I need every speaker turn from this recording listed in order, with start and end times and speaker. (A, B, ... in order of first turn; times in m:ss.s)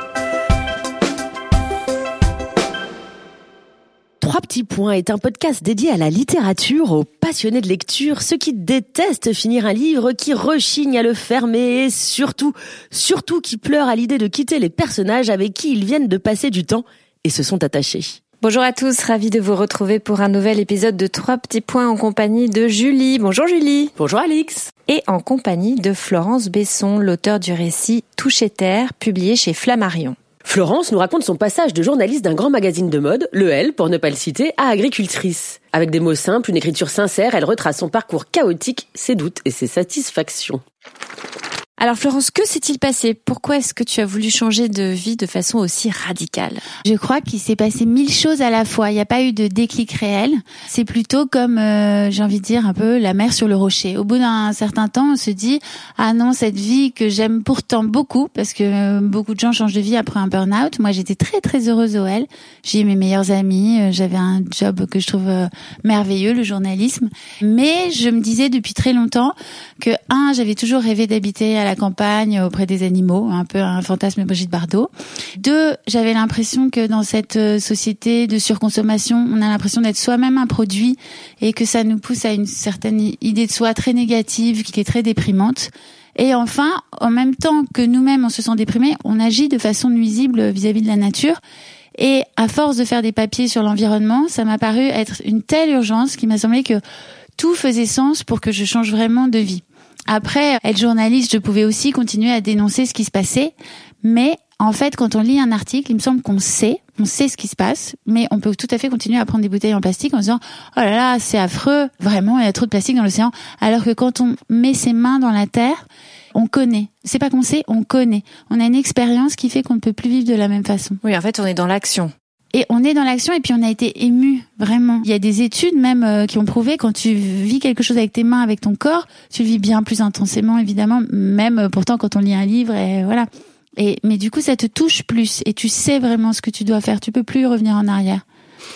0:04.2-0:18.2 A
0:18.4-0:23.9 B
0:24.0-0:24.7 A
0:24.9-0:30.2 B
0:30.4-0:40.6 A
0:41.8-0:46.6 B
0:46.8-1:31.4 C
1:32.0-1:36.8 C
1:37.4-2:01.0 C
2:01.0-2:02.1 B
2:02.5-2:18.2 C